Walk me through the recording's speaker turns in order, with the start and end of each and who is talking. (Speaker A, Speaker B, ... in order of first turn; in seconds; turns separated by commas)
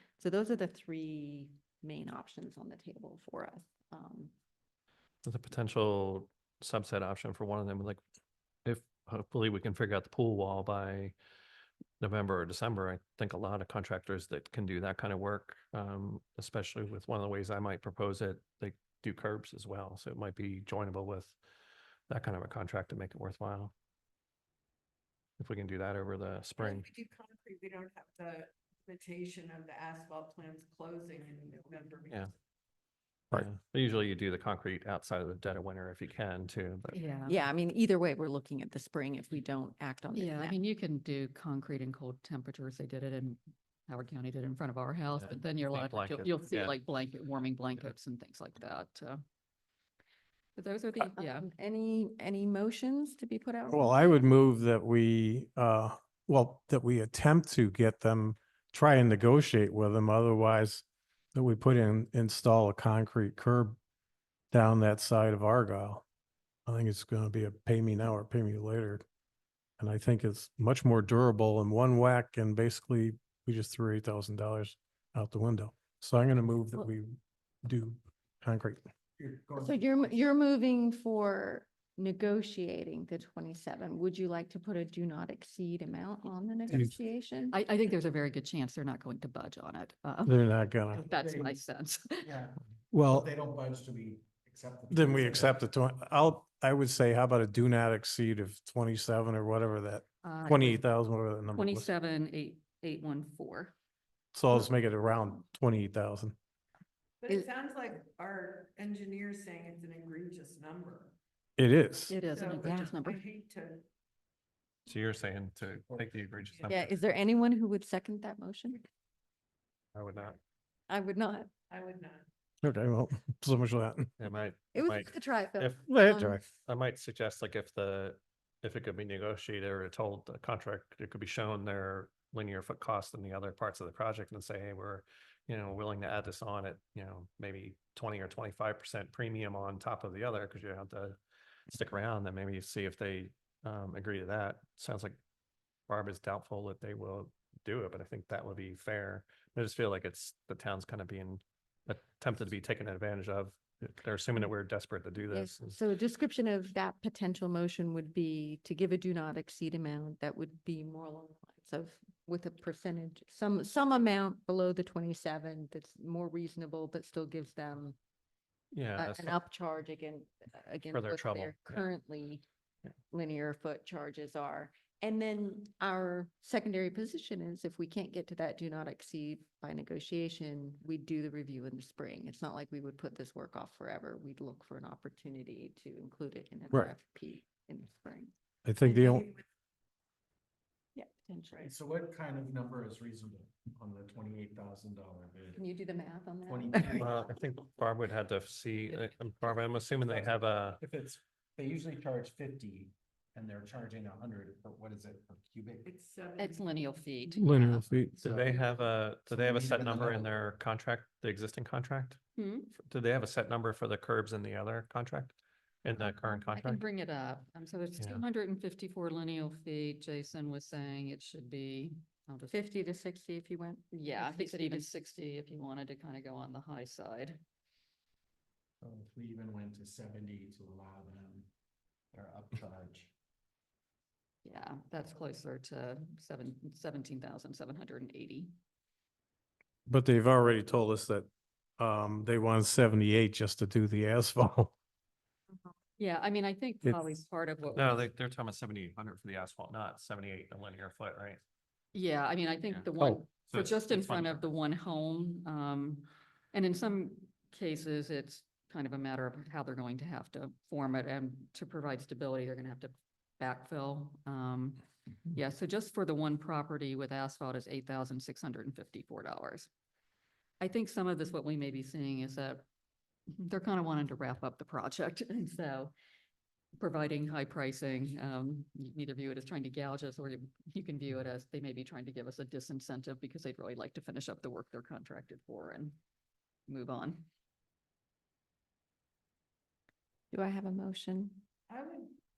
Speaker A: 0.2-4.3, Speaker B: 5.2-8.0, Speaker B: 8.6-11.1, Speaker B: 12.0-21.3, Speaker B: 22.1-23.7, Speaker B: 25.4-26.8, Speaker C: 26.6-32.2, Speaker B: 33.3-37.0, Speaker D: 36.9-37.4, Speaker A: 37.3-40.6, Speaker D: 40.1-49.2, Speaker B: 45.2-46.8, Speaker D: 50.5-51.5, Speaker A: 51.0-54.1, Speaker E: 53.7-63.8, Speaker E: 64.5-66.0, Speaker E: 66.7-69.0, Speaker E: 69.8-78.8, Speaker F: 79.2-80.1, Speaker A: 79.5-87.6, Speaker D: 87.5-90.4, Speaker E: 90.2-91.0, Speaker D: 90.9-92.3, Speaker F: 91.0-91.6, Speaker F: 92.2-95.6, Speaker E: 92.9-93.3, Speaker E: 94.9-101.9, Speaker D: 100.2-100.8, Speaker D: 101.5-103.7, Speaker E: 104.3-106.3, Speaker C: 107.2-111.2, Speaker E: 111.6-112.1, Speaker D: 112.1-113.2, Speaker C: 112.2-113.8, Speaker B: 114.8-116.9, Speaker A: 116.7-118.8, Speaker B: 119.9-120.4, Speaker A: 120.9-121.5, Speaker C: 121.7-122.3, Speaker E: 122.6-124.1, Speaker B: 124.2-125.9, Speaker A: 124.7-126.4, Speaker E: 125.8-126.4, Speaker B: 126.4-141.2, Speaker B: 141.7-145.2, Speaker B: 145.9-155.8, Speaker A: 155.3-168.0, Speaker B: 168.7-169.3, Speaker A: 168.9-172.4, Speaker B: 170.9-171.8, Speaker A: 173.1-188.3, Speaker E: 188.6-189.3, Speaker D: 188.8-189.3, Speaker A: 190.9-191.7, Speaker F: 191.6-195.6, Speaker A: 195.6-197.1, Speaker F: 196.4-197.2, Speaker B: 197.0-200.8, Speaker F: 200.8-205.8, Speaker C: 205.8-207.1, Speaker D: 206.4-207.8, Speaker E: 207.4-208.2, Speaker B: 208.1-212.2, Speaker F: 209.3-210.3, Speaker D: 212.3-212.7, Speaker B: 212.7-216.8, Speaker D: 216.5-222.6, Speaker A: 222.5-224.8, Speaker D: 223.9-227.4, Speaker F: 228.8-231.5, Speaker F: 232.1-233.1, Speaker D: 234.4-238.5, Speaker E: 239.9-244.7, Speaker D: 246.0-248.0, Speaker B: 247.7-251.4, Speaker D: 251.9-264.8, Speaker B: 252.7-254.4, Speaker D: 265.3-269.7, Speaker D: 270.6-272.6, Speaker D: 273.4-275.9, Speaker D: 276.8-286.0, Speaker D: 286.7-287.2, Speaker A: 290.3-291.4, Speaker C: 291.7-292.2